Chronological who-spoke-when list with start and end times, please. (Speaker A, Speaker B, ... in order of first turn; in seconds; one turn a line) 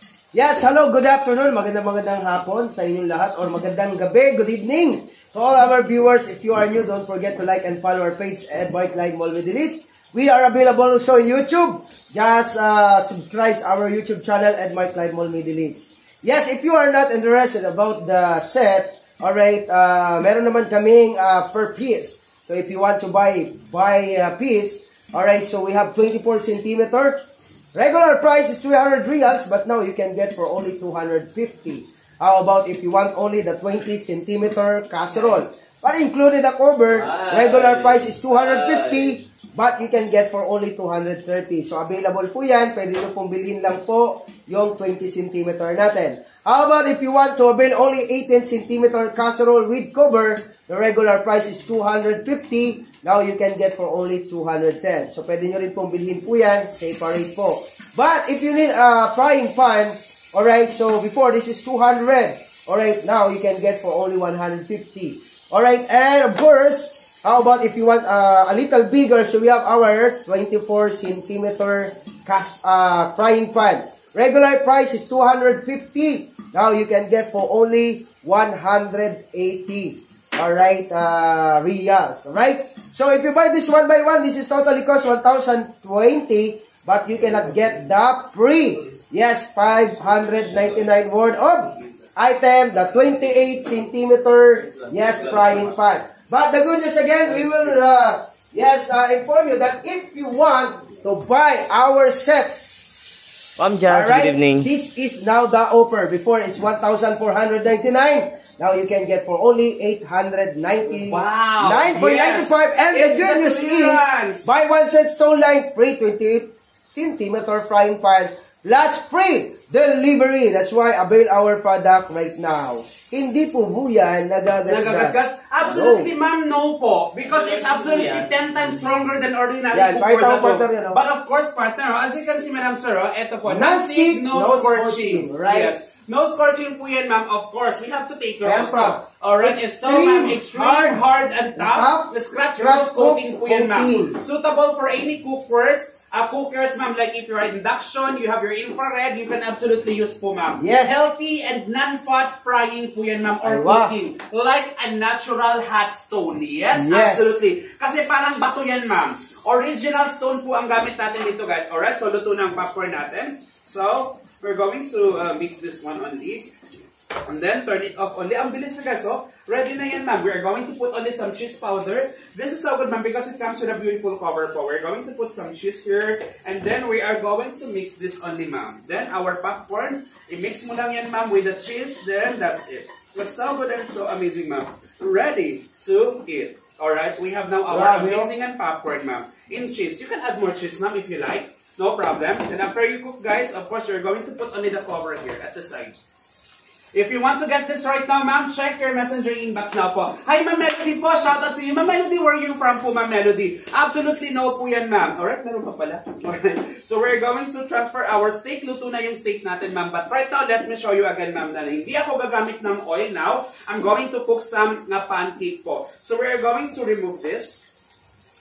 Speaker A: 0.3-102.6
Speaker B: 36.9-39.2
Speaker C: 87.2-87.9
Speaker C: 88.7-92.2
Speaker C: 92.9-93.2
Speaker C: 94.5-95.9
Speaker B: 94.9-95.7
Speaker C: 97.2-97.7
Speaker B: 103.6-104.7
Speaker A: 103.8-126.1
Speaker C: 111.1-114.5
Speaker C: 124.7-166.5
Speaker B: 127.2-128.8
Speaker A: 129.7-131.0
Speaker A: 133.4-135.7
Speaker A: 138.4-141.0
Speaker A: 141.5-144.2
Speaker A: 150.6-151.0
Speaker A: 153.4-153.9
Speaker A: 156.7-157.4
Speaker C: 167.2-196.0
Speaker A: 187.7-188.3
Speaker C: 196.9-217.7